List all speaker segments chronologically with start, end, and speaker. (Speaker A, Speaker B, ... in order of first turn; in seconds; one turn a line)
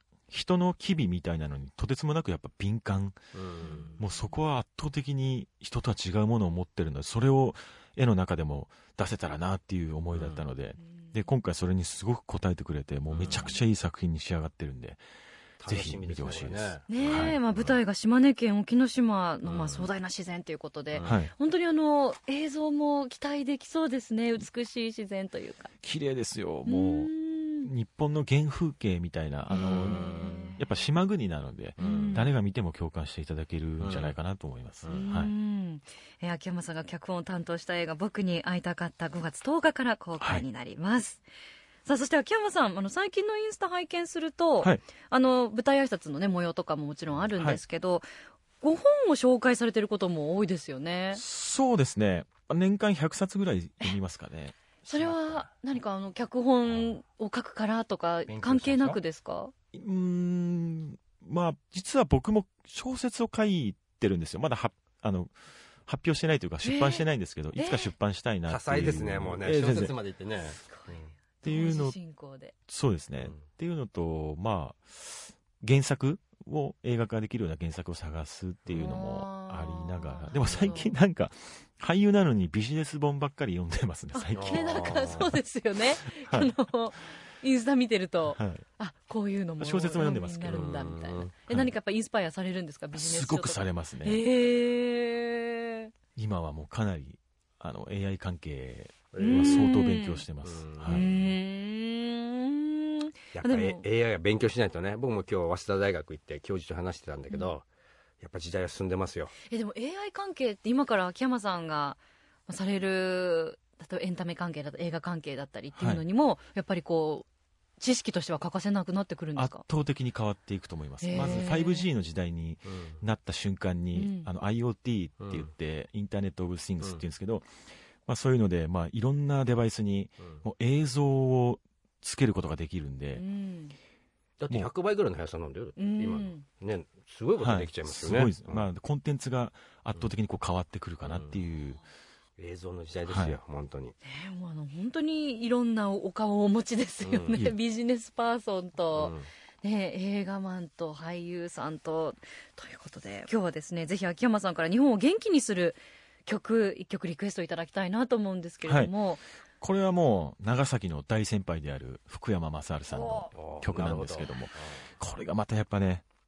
Speaker A: 0.3-3.3
Speaker B: 3.4-3.9
Speaker C: 3.6-4.0
Speaker A: 4.0-15.0
Speaker B: 10.2-10.4
Speaker B: 13.1-13.6
Speaker B: 15.6-17.8
Speaker A: 15.7-17.4
Speaker C: 16.9-25.7
Speaker B: 19.4-19.9
Speaker A: 21.0-21.3
Speaker A: 25.8-35.3
Speaker C: 26.7-27.7
Speaker C: 29.5-30.6
Speaker B: 29.6-30.6
Speaker C: 31.8-32.3
Speaker B: 31.8-32.2
Speaker B: 33.8-34.1
Speaker C: 34.9-41.2
Speaker A: 40.2-40.5
Speaker C: 41.9-48.1
Speaker C: 48.6-51.2
Speaker A: 51.1-55.2
Speaker C: 54.9-59.5
Speaker B: 58.3-59.0
Speaker A: 59.7-65.3
Speaker A: 65.9-69.9
Speaker C: 66.6-67.0
Speaker C: 67.6-67.9
Speaker B: 68.5-71.1
Speaker C: 70.7-72.5
Speaker A: 71.4-72.0
Speaker A: 72.7-85.3
Speaker C: 78.7-81.0
Speaker C: 84.1-95.9
Speaker B: 84.3-85.3
Speaker A: 86.2-86.5
Speaker A: 88.3-88.6
Speaker A: 89.6-90.7
Speaker B: 90.5-91.3
Speaker A: 92.9-94.2
Speaker A: 96.2-101.1
Speaker B: 99.1-99.7
Speaker C: 99.2-100.2
Speaker B: 100.4-101.3
Speaker C: 100.9-103.8
Speaker B: 103.3-107.7
Speaker B: 108.2-109.3
Speaker C: 109.5-117.3
Speaker A: 115.8-116.0
Speaker C: 117.8-119.6
Speaker A: 119.4-127.5
Speaker C: 121.0-121.8
Speaker B: 121.2-121.4
Speaker B: 122.7-123.0
Speaker C: 123.9-124.3
Speaker B: 125.2-125.5
Speaker A: 128.1-133.2
Speaker C: 133.2-133.8
Speaker B: 134.4-138.7
Speaker C: 135.8-136.4
Speaker A: 137.4-141.8
Speaker B: 141.0-141.4
Speaker B: 142.4-143.9
Speaker A: 143.1-143.4
Speaker C: 144.0-159.2
Speaker B: 147.0-147.4
Speaker B: 149.0-149.3
Speaker A: 158.7-158.9
Speaker A: 159.6-166.0
Speaker B: 163.3-164.8